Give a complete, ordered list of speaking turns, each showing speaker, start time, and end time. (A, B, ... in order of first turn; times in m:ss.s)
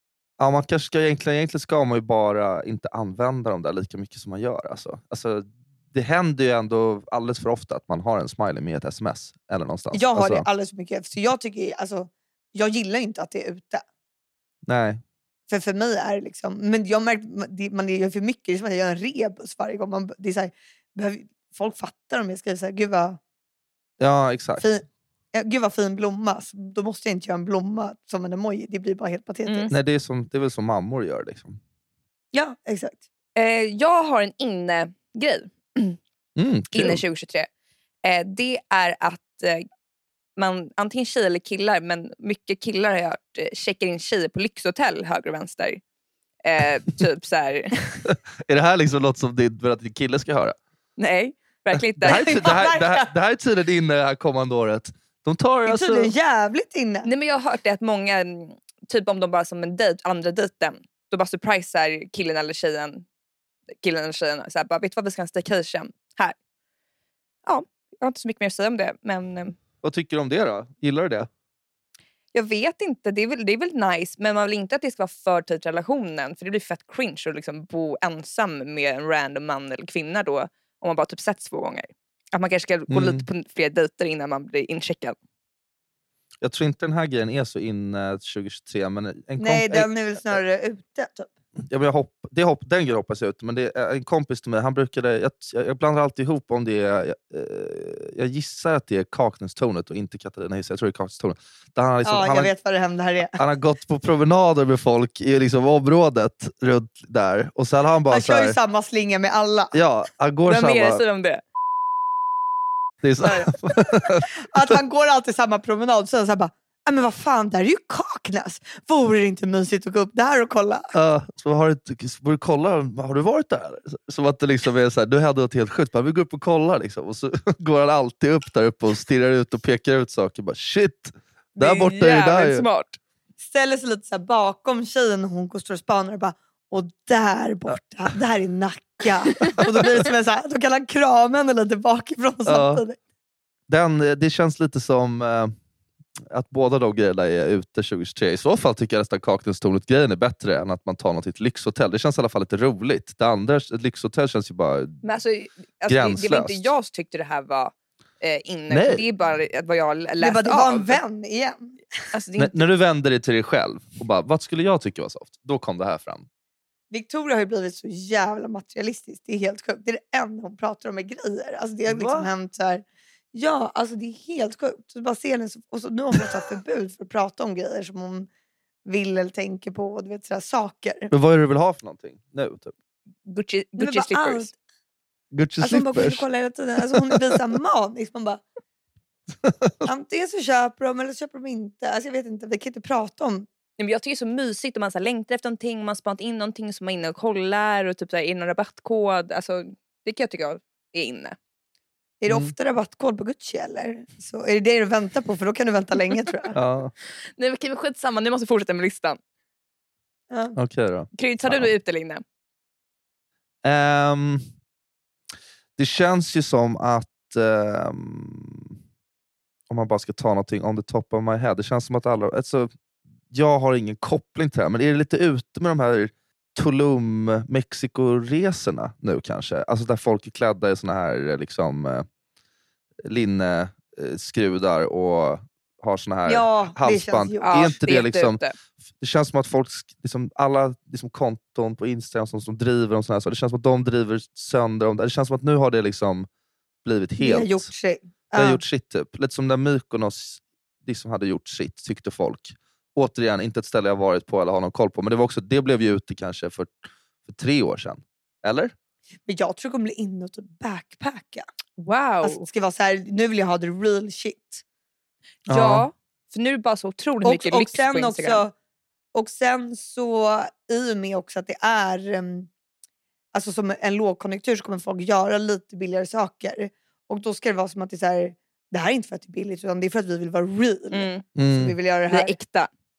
0:00.4-0:10.5 A
0:09.9-0:13.8 B
0:14.7-0:15.0 A
0:15.5-0:23.2 B
0:24.0-0:24.7 A
0:24.6-0:29.8 B
0:29.5-0:29.7 C
0:29.7-0:31.6 A
0:32.3-0:33.0 B
0:33.4-0:36.0 C
0:36.4-0:37.0 A
0:36.7-0:37.5 C
0:38.0-0:39.7 C
0:40.4-0:45.8 C
0:46.4-0:47.8 C
0:48.0-0:50.6 A
0:51.0-0:52.5 C
0:52.0-0:56.1 A
0:52.0-0:53.1 B
0:55.7-0:57.1 B
0:57.0-1:03.0 C
1:03.8-1:06.4 C
1:07.5-1:09.6 C
1:09.8-1:11.3 A
1:12.3-1:25.2 C
1:22.9-1:23.2 A
1:26.4-1:30.4 A
1:29.4-1:31.3 B
1:31.7-1:42.5 A
1:42.0-1:43.4 B
1:43.4-1:48.6 A
1:48.1-1:49.8 B
1:49.7-1:51.0 A
1:50.5-1:51.4 C
1:53.0-1:54.8 A
1:53.2-1:53.5 C
1:54.3-2:00.9 B
2:00.9-2:12.7 A
2:11.6-2:13.0 C
2:13.4-2:23.0 B
2:22.5-2:22.8 A
2:23.7-2:25.5 A
2:26.3-2:35.0 A
2:35.0-2:41.0 C
2:35.9-2:36.7 A
2:38.7-2:39.0 A
2:40.2-2:41.8 B
2:42.1-2:42.6 C
2:42.4-2:46.3 A
2:46.9-2:58.3 B
2:51.9-2:52.3 A
2:58.9-3:01.1 B
3:01.1-3:02.7 A
3:03.3-3:04.5 C
3:03.8-3:04.6 B
3:05.3-3:06.2 A
3:05.6-3:08.4 B
3:07.0-3:07.4 A
3:09.4-3:09.8 A
3:09.8-3:13.5 B
3:13.8-3:21.4 C
3:22.2-3:26.6 B
3:22.3-3:22.5 A
3:26.5-3:26.9 A
3:27.4-3:29.2 C
3:30.3-3:30.6 B
3:30.6-3:31.7 A
3:31.2-3:32.2 C
3:33.6-3:34.5 A
3:35.8-3:38.7 A
3:39.7-3:42.7 A
3:43.3-3:52.1 A
3:53.0-3:58.4 A
3:56.3-3:57.8 B
3:57.4-3:58.6 C
3:59.0-4:06.3 A
4:06.8-4:07.7 A
4:07.2-4:08.6 B
4:08.4-4:18.7 A
4:19.3-4:21.5 B
4:21.8-4:22.5 C
4:22.2-4:24.6 B
4:25.5-4:25.9 A
4:25.5-4:28.4 C
4:27.2-4:28.5 B
4:29.1-4:32.5 B
4:33.3-4:42.4 B
4:40.9-4:41.2 C
4:41.4-4:41.8 A
4:42.1-4:42.7 C